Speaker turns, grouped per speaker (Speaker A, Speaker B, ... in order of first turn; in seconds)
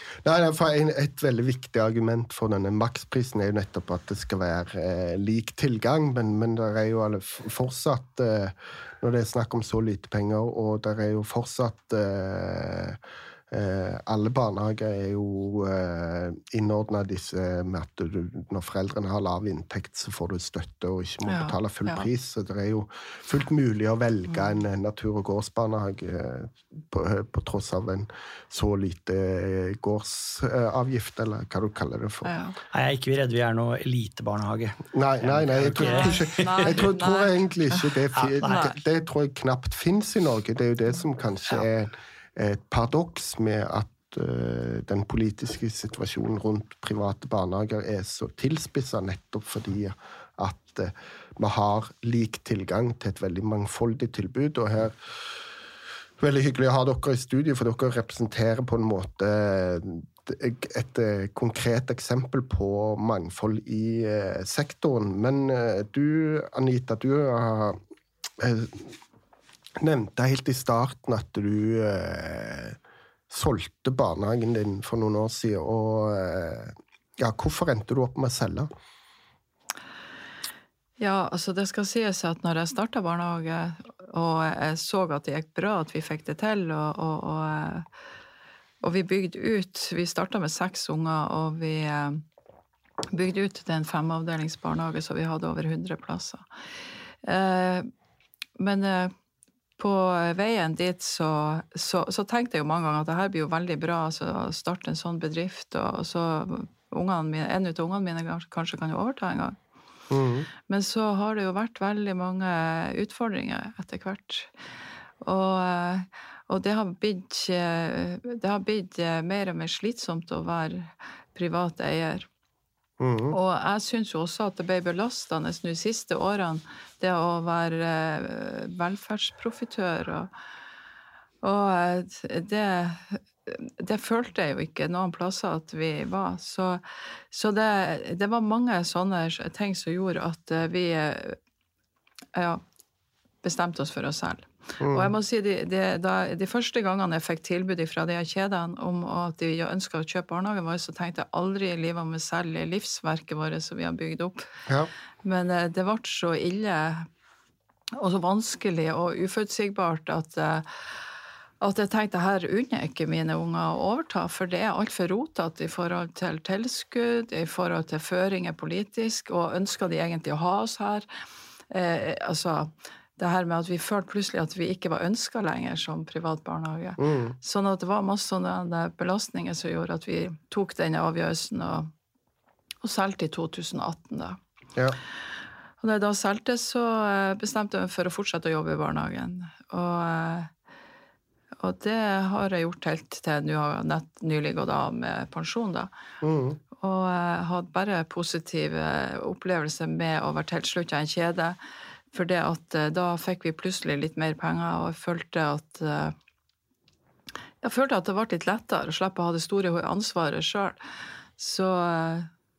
Speaker A: 0.2-13.0, 13.5-32.3, 34.9-55.0, 56.2-67.8, 68.4-69.0, 69.8-72.8, 73.3-78.7, 110.1-110.5, 123.0-123.3, 144.8-145.1, 177.0-177.3, 196.2-196.6
Speaker B: 21.2-22.1, 32.2-32.6, 35.7-38.6, 81.0-87.8, 88.8-92.2, 93.1-96.4, 97.2-97.9, 98.6-99.1, 99.8-109.5, 110.7-114.5, 115.2-122.3, 123.3-130.3, 131.4-141.4, 142.3-142.6, 143.4-154.5, 155.2-157.1, 157.9-160.7, 161.6-171.1, 171.7-181.9, 182.8-184.4, 185.8-190.5, 191.6-195.9, 196.8-201.6, 202.1-206.1, 207.6-210.8, 211.4-212.3
Speaker C: 32.7-36.9, 38.1-38.7